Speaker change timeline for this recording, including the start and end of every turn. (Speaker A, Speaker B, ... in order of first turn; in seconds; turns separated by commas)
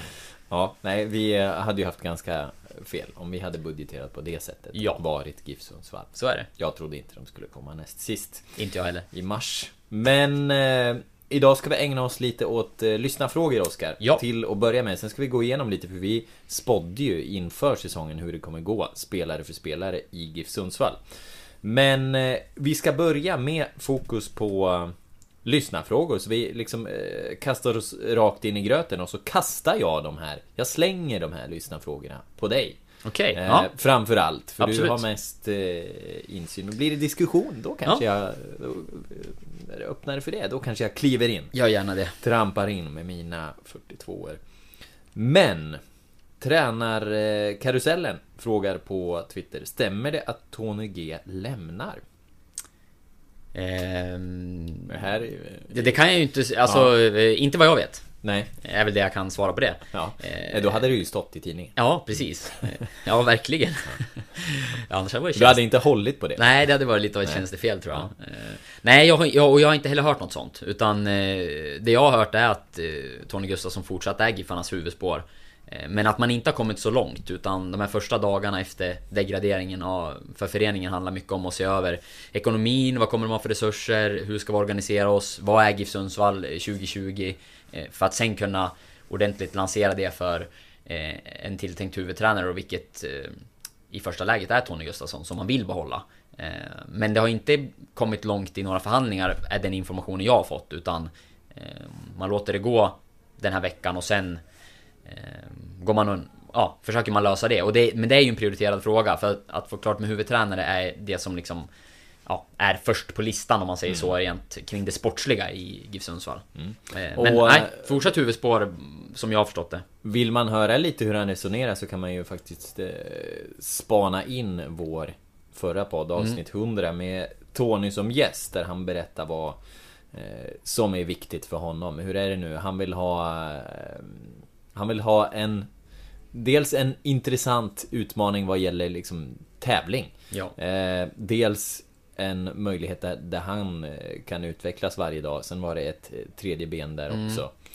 Speaker A: 0.5-8.5, Speaker B: 6.1-6.5, Speaker B: 8.6-9.1, Speaker A: 9.1-32.8, Speaker B: 33.0-33.7, Speaker A: 33.3-41.5, Speaker B: 34.6-35.0, Speaker B: 41.5-42.1, Speaker A: 42.2-44.4, Speaker A: 45.1-45.8, Speaker A: 46.4-52.0, Speaker B: 53.5-54.9, Speaker A: 54.9-56.0, Speaker B: 55.7-58.0, Speaker A: 56.6-56.9, Speaker A: 58.2-58.5, Speaker B: 58.6-60.8, Speaker A: 59.9-61.7, Speaker B: 61.8-65.6, Speaker A: 65.3-66.5, Speaker B: 66.4-93.4, Speaker A: 67.2-68.1, Speaker B: 93.9-104.4, Speaker B: 105.0-111.7, Speaker B: 112.2-119.8, Speaker A: 113.9-114.1, Speaker A: 116.5-118.1, Speaker A: 120.0-129.6, Speaker A: 130.1-135.7, Speaker A: 136.3-147.5, Speaker B: 147.1-147.4